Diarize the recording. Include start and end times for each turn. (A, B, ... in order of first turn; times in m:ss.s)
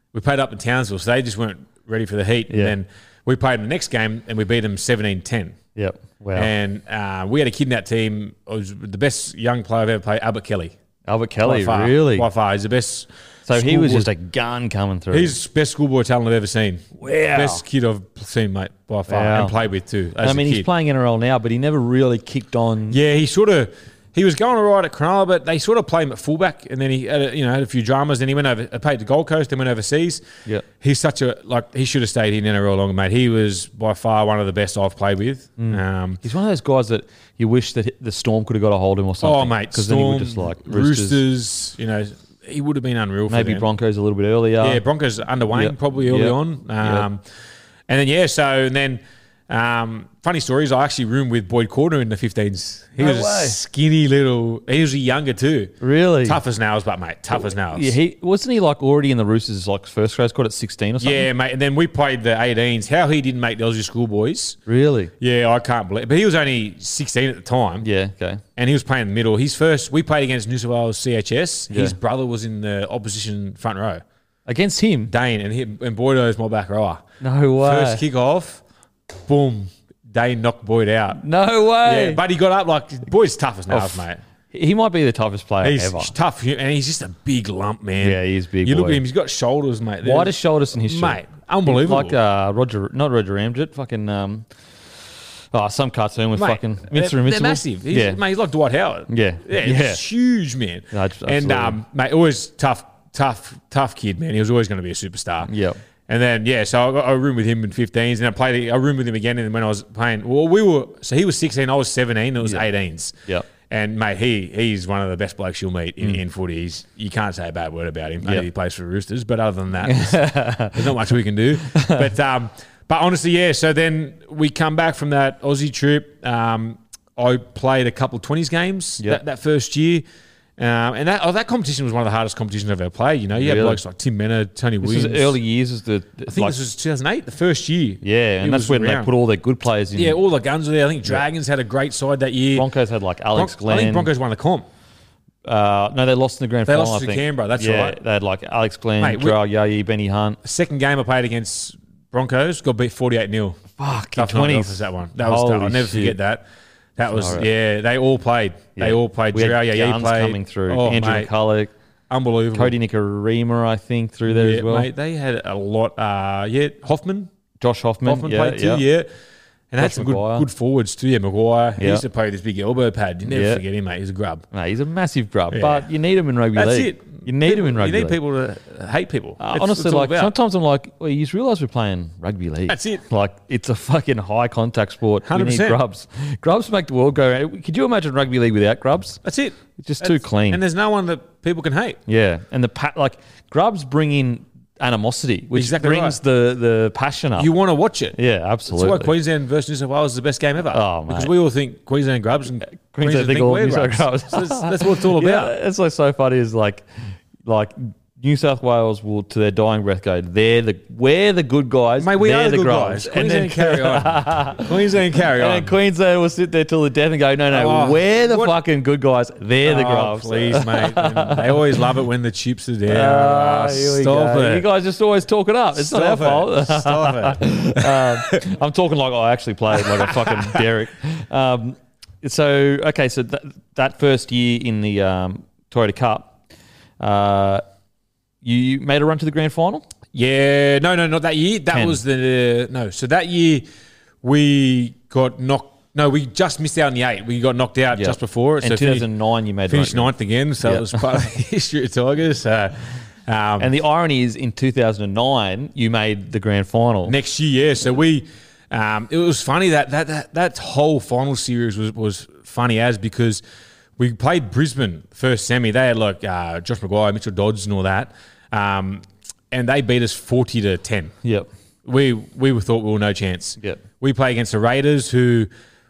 0:00.1-0:05.6 A
0:02.5-0:02.8 B
0:05.8-0:06.5 B
0:06.4-0:10.8 A
0:11.1-0:12.3 B
0:11.4-0:14.1 A
0:13.5-0:15.4 B
0:15.1-0:20.7 A
0:17.0-0:17.6 B
0:19.1-0:19.5 B
0:20.2-0:23.0 B
0:22.9-0:30.2 A
0:30.8-0:36.2 A
0:35.6-0:41.2 B
0:39.2-0:43.7 A
0:43.3-0:44.8 B
0:44.6-0:47.2 A
0:45.5-0:47.1 B
0:47.9-0:58.0 A
0:53.0-0:53.6 B
0:55.8-0:56.4 B
0:57.3-1:01.3 B
1:01.0-1:04.6 A
1:04.7-1:05.1 B
1:05.2-1:07.9 A
1:07.8-1:08.4 B
1:08.6-1:14.0 A
1:11.7-1:12.0 B
1:14.5-1:15.1 B
1:15.1-1:17.0 A
1:17.2-1:18.0 B
1:17.6-1:18.6 A
1:19.3-1:21.2 A
1:21.2-1:22.2 B
1:21.8-1:24.2 A
1:23.7-1:26.1 B
1:25.6-1:32.2 A
1:28.0-1:29.0 B
1:30.0-1:34.4 B
1:35.5-1:38.2 B
1:36.4-1:45.5 A
1:39.1-1:40.0 B
1:40.9-1:41.8 B
1:45.4-1:45.8 B
1:46.1-1:53.2 A
1:53.7-2:10.0 A
1:59.8-2:02.1 B
2:10.6-2:15.4 A
2:13.4-2:13.8 B
2:14.8-2:16.6 B
2:16.3-2:19.1 A
2:18.0-2:20.2 B
2:20.0-2:22.7 A
2:22.5-2:24.1 B
2:23.3-2:24.7 A
2:25.4-2:30.4 B
2:26.7-2:28.0 A
2:29.0-2:29.4 A
2:30.4-2:33.6 A
2:33.8-2:36.2 B
2:34.2-2:36.4 A
2:37.0-2:41.3 A
2:37.1-2:37.5 B
2:38.8-2:41.7 B
2:42.1-2:42.8 A
2:42.5-2:44.9 B
2:44.3-2:47.3 A
2:47.6-2:48.8 B
2:48.0-2:49.1 A
2:49.7-2:54.5 A
2:49.8-2:50.5 B
2:51.8-2:52.0 B
2:53.3-2:53.6 B
2:54.5-2:58.2 B
2:55.5-2:55.9 A
2:56.6-3:00.3 A
2:59.4-3:09.2 B
3:02.7-3:03.0 A
3:05.2-3:05.8 A
3:09.2-3:12.0 A
3:09.8-3:10.6 B
3:12.1-3:17.5 B
3:15.6-3:16.2 A
3:17.4-3:18.2 A
3:18.2-3:19.1 B
3:18.7-3:25.5 A
3:20.7-3:21.3 B
3:22.7-3:26.8 B
3:27.4-3:41.8 B
3:32.0-3:35.7 A
3:37.5-3:38.6 A
3:39.6-3:44.7 A
3:42.9-3:56.4 B
3:45.8-3:48.4 A
3:49.7-3:50.6 A
3:57.0-3:57.6 B
3:58.4-3:59.8 B
4:00.1-4:03.7 A
4:01.7-4:02.0 B
4:04.2-4:09.1 A
4:07.9-4:10.1 B
4:09.7-4:13.7 A
4:10.6-4:11.1 B
4:13.6-4:17.2 B
4:17.1-4:23.4 A
4:24.0-4:31.1 A
4:31.8-4:35.5 A